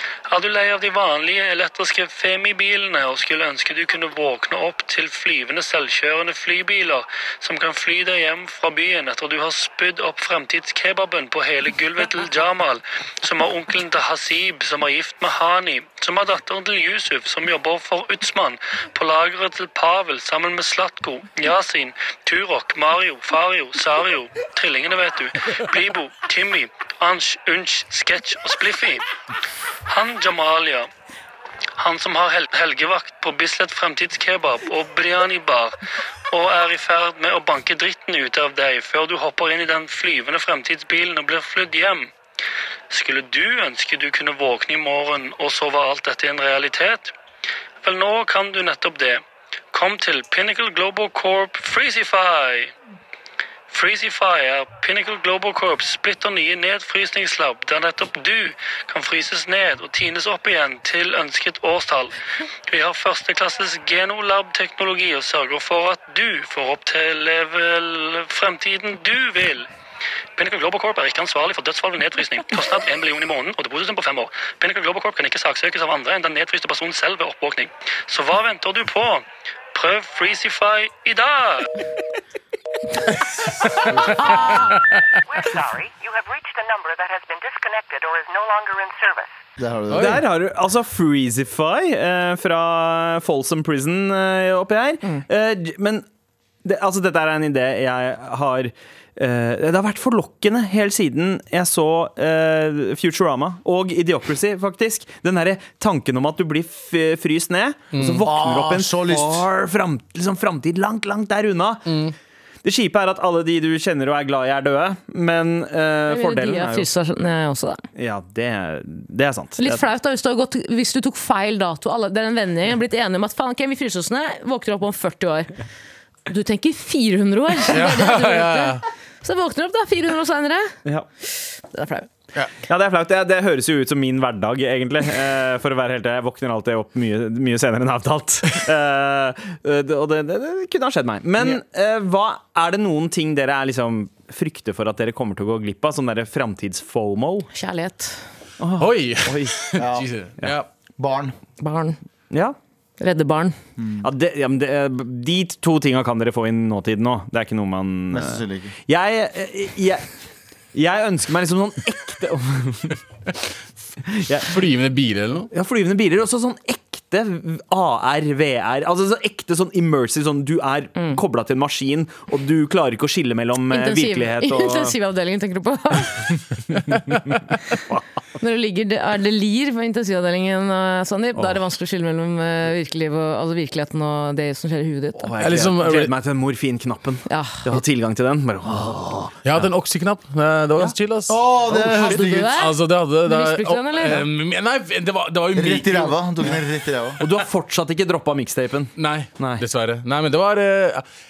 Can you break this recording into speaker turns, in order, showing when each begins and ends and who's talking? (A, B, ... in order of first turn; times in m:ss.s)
0:00.3-0:29.1 A
0:29.9-0:30.9 A
0:31.8-0:35.8 A
0:36.3-0:42.1 A
0:42.9-0:47.1 A
0:47.8-0:52.7 A
0:53.7-1:02.2 A
1:02.7-1:09.7 A
1:10.4-1:21.7 A
1:23.7-1:25.0 B
1:24.2-1:24.7 C
1:25.3-1:29.4 D
1:29.6-1:30.2 E
1:29.9-1:30.2 B
1:29.9-1:36.0 F
1:36.6-1:52.0 F
1:47.9-1:48.8 B
1:48.2-1:49.4 E
1:51.9-1:52.1 B
1:52.6-1:56.9 F
1:56.1-1:57.8 C
1:58.0-1:59.8 F
1:59.6-2:05.5 C
2:06.3-2:10.7 C
2:07.7-2:08.8 B
2:11.4-2:12.1 C
2:12.7-2:27.5 F
2:27.5-2:28.2 C
2:28.6-2:29.6 F
2:28.8-2:30.7 B
2:29.8-2:30.1 E
2:31.0-2:31.4 E
2:31.6-2:32.0 C
2:32.3-2:32.6 F
2:33.0-2:33.6 C
2:33.8-2:34.1 E
2:34.0-2:40.1 F
2:38.1-2:38.7 E
2:40.7-2:43.0 F
2:44.2-2:44.6 F
2:44.4-2:45.5 B
2:45.5-2:55.0 F
2:53.7-2:56.3 C
2:56.8-2:57.2 B
2:56.9-2:57.3 F
2:58.4-3:05.3 C
3:05.2-3:09.7 F
3:05.4-3:06.1 B
3:07.3-3:07.8 C
3:09.4-3:16.2 B
3:11.3-3:12.6 E
3:11.9-3:14.2 C
3:15.5-3:17.2 E
3:17.2-3:19.6 F
3:19.0-3:21.0 B